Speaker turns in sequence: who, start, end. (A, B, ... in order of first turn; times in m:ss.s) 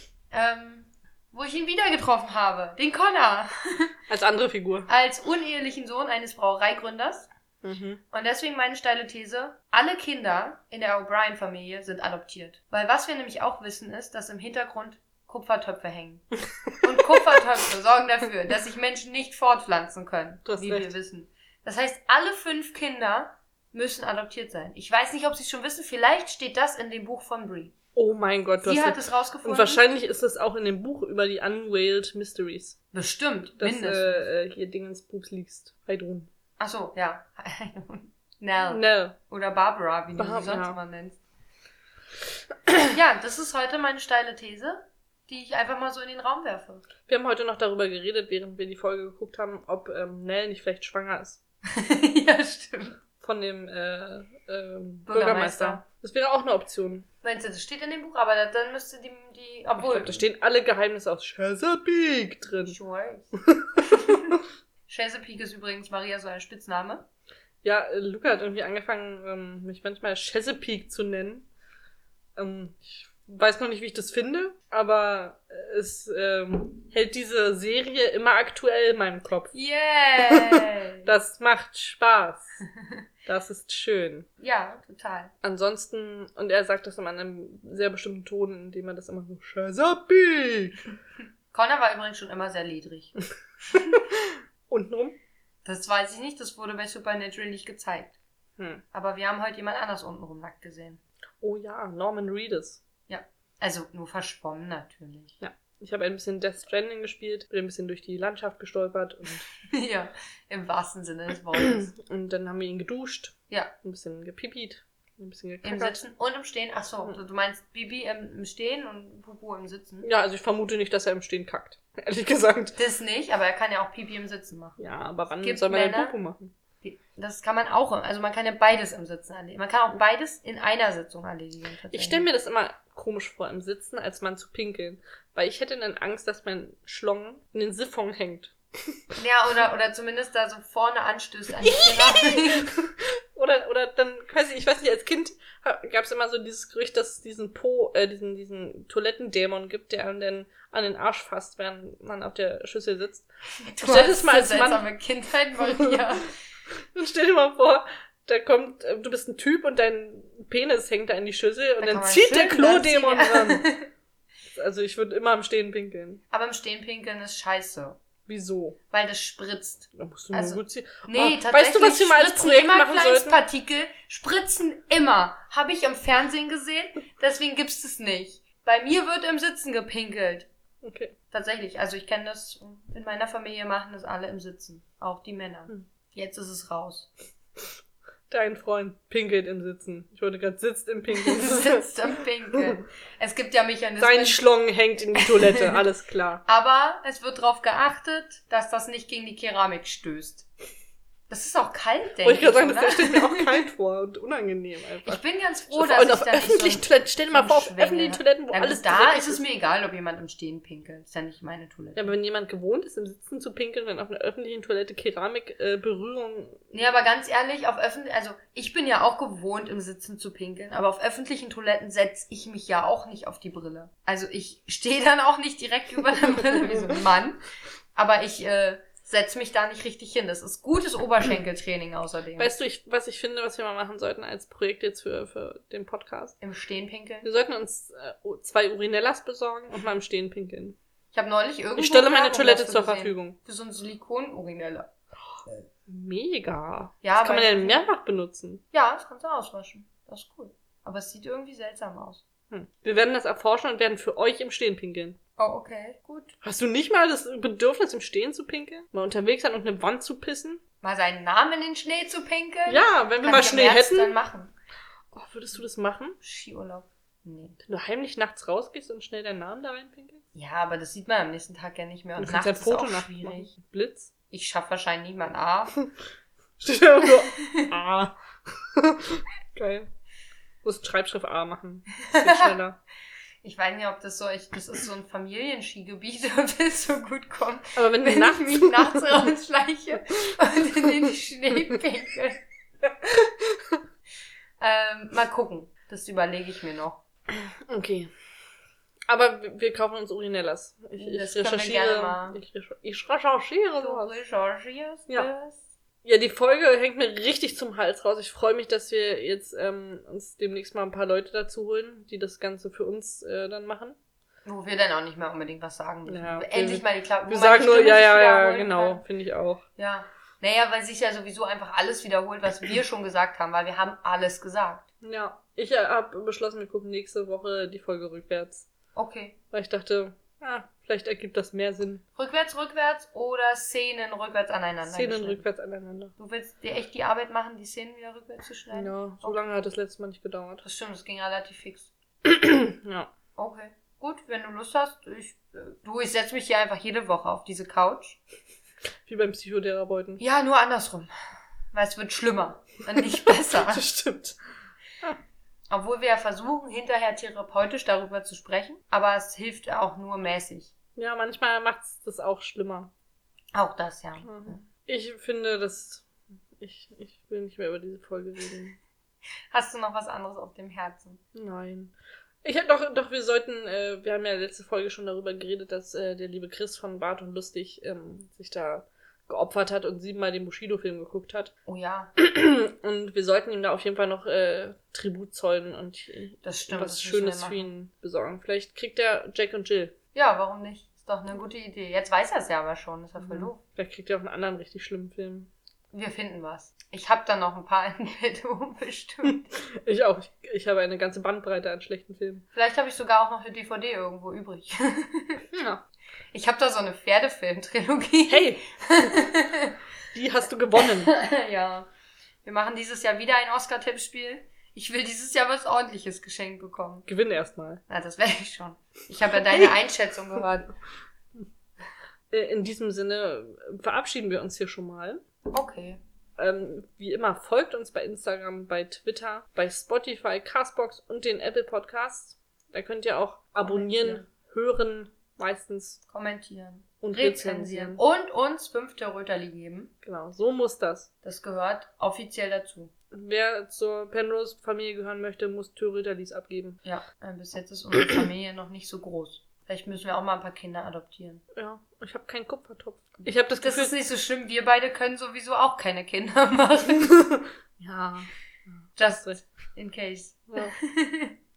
0:00.3-0:03.9 A
0:04.1-0:04.9 B
0:04.9-0:07.3 A
0:07.6-0:08.0 B
0:08.1-0:16.3 A
0:16.8-0:17.2 B
0:16.8-0:27.7 A
0:20.4-0:20.9 B
0:28.0-0:32.8 B
0:28.6-0:29.8 A
0:32.9-0:34.3 A
0:33.6-0:36.3 B
0:36.6-0:41.2 A
0:38.6-0:39.2 B
0:40.2-0:40.8 B
0:42.9-0:46.9 A
0:47.1-0:51.4 B
0:51.7-0:53.0 A
0:53.2-0:57.1 B
0:55.1-0:55.8 A
0:57.2-1:00.2 A
0:59.8-1:02.8 B
1:02.7-1:03.3 A
1:03.4-1:04.4 B
1:03.9-1:04.4 A
1:04.9-1:07.1 A
1:07.6-1:11.5 B
1:12.4-1:19.6 B
1:19.5-1:21.1 A
1:20.2-1:22.6 B
1:23.3-1:24.3 B
1:24.4-1:25.3 A
1:25.4-1:30.8 B
1:31.5-1:33.1 A
1:33.7-1:35.2 B
1:35.6-1:38.2 A
1:38.6-1:38.8 B
1:38.9-1:41.0 A
1:41.4-1:42.8 B
1:43.1-1:45.4 A
1:45.4-1:49.5 B
1:49.6-1:51.9 A
1:51.6-1:56.0 B
1:55.6-2:00.1 A
2:00.0-2:02.8 B
2:02.8-2:04.8 A
2:04.8-2:06.5 B
2:05.4-2:06.2 A
2:06.8-2:12.3 A
2:11.9-2:18.5 B
2:19.2-2:22.7 A
2:21.6-2:33.3 B
2:33.7-2:36.3 A
2:33.8-2:34.9 B
2:35.6-2:36.0 B
2:36.9-2:43.7 B
2:41.8-2:43.9 A
2:44.6-2:46.2 B
2:46.3-2:48.0 A
2:48.3-2:48.8 B
2:48.9-3:00.5 A
2:49.9-2:53.4 B
3:00.8-3:01.2 B
3:01.3-3:07.1 A
3:08.3-3:12.6 B
3:11.1-3:14.4 A
3:14.0-3:16.4 B
3:15.2-3:15.8 A
3:16.5-3:20.5 A
3:21.3-3:23.4 A
3:22.2-3:25.2 B
3:25.0-3:32.1 A
3:25.7-3:29.4 B
3:32.0-3:36.6 B
3:36.7-3:47.4 A
3:48.0-3:52.5 A
3:52.4-3:56.4 B
3:56.4-3:57.3 A
3:57.2-4:00.8 B
4:01.1-4:04.9 A
4:01.8-4:03.4 B
4:05.9-4:08.6 B
4:07.0-4:07.9 A
4:08.7-4:12.2 A
4:12.5-4:15.2 B
4:15.4-4:16.4 A
4:16.4-4:20.6 B
4:20.8-4:24.5 A
4:22.7-4:24.2 B
4:25.1-4:26.2 B
4:26.2-4:27.6 A
4:27.6-4:30.2 B
4:30.4-4:33.5 A
4:32.2-4:34.1 B
4:34.3-4:35.8 A
4:36.6-4:39.9 B
4:37.0-4:37.7 A
4:40.6-4:42.8 B
4:42.1-4:42.6 A
4:43.4-4:52.4 A
4:47.8-4:49.2 B
4:53.0-4:53.8 B
4:54.6-4:57.0 A
4:57.3-4:58.1 B
4:59.1-5:04.2 B
5:01.0-5:02.4 A
5:03.8-5:05.6 A
5:06.0-5:14.0 B
5:14.4-5:19.0 A
5:16.1-5:19.6 B
5:19.8-5:24.8 A
5:25.0-5:28.7 B
5:29.0-5:29.4 A
5:29.5-5:32.0 B
5:32.2-5:35.4 A
5:34.9-5:36.1 B
5:36.2-5:39.4 A
5:38.7-5:40.6 B
5:40.6-5:41.9 A
5:42.2-5:43.1 B
5:43.4-5:48.2 A
5:49.1-5:50.2 B
5:50.2-5:51.1 A
5:51.7-5:53.8 A
5:53.1-5:54.4 B
5:55.7-6:00.7 A
6:01.0-6:02.9 B
6:03.5-6:04.6 A
6:04.2-6:08.8 B
6:09.5-6:11.2 A
6:11.3-6:21.5 B
6:21.7-6:22.1 A
6:22.2-6:30.0 B
6:26.4-6:27.7 A
6:30.1-6:33.6 A
6:33.2-6:35.5 B
6:35.9-6:39.5 A
6:39.2-6:42.5 B
6:42.5-6:45.5 A
6:45.5-6:45.8 B
6:46.3-6:49.8 A
6:48.3-6:48.6 B
6:50.1-6:51.1 B
6:50.8-6:51.9 A
6:52.4-6:57.1 A
6:57.1-6:57.8 B
6:57.9-7:00.7 A
7:02.3-7:05.2 B
7:05.5-7:06.0 A
7:06.4-7:16.0 B
7:13.6-7:14.2 A
7:16.1-7:19.9 A
7:17.0-7:18.0 B
7:20.0-7:21.1 B
7:21.2-7:22.9 A
7:23.1-7:26.8 B
7:26.8-7:31.4 A
7:31.6-7:33.9 B
7:33.6-7:37.2 A
7:37.0-7:38.3 B
7:39.0-7:39.4 B
7:39.0-7:41.4 A
7:40.5-7:40.8 B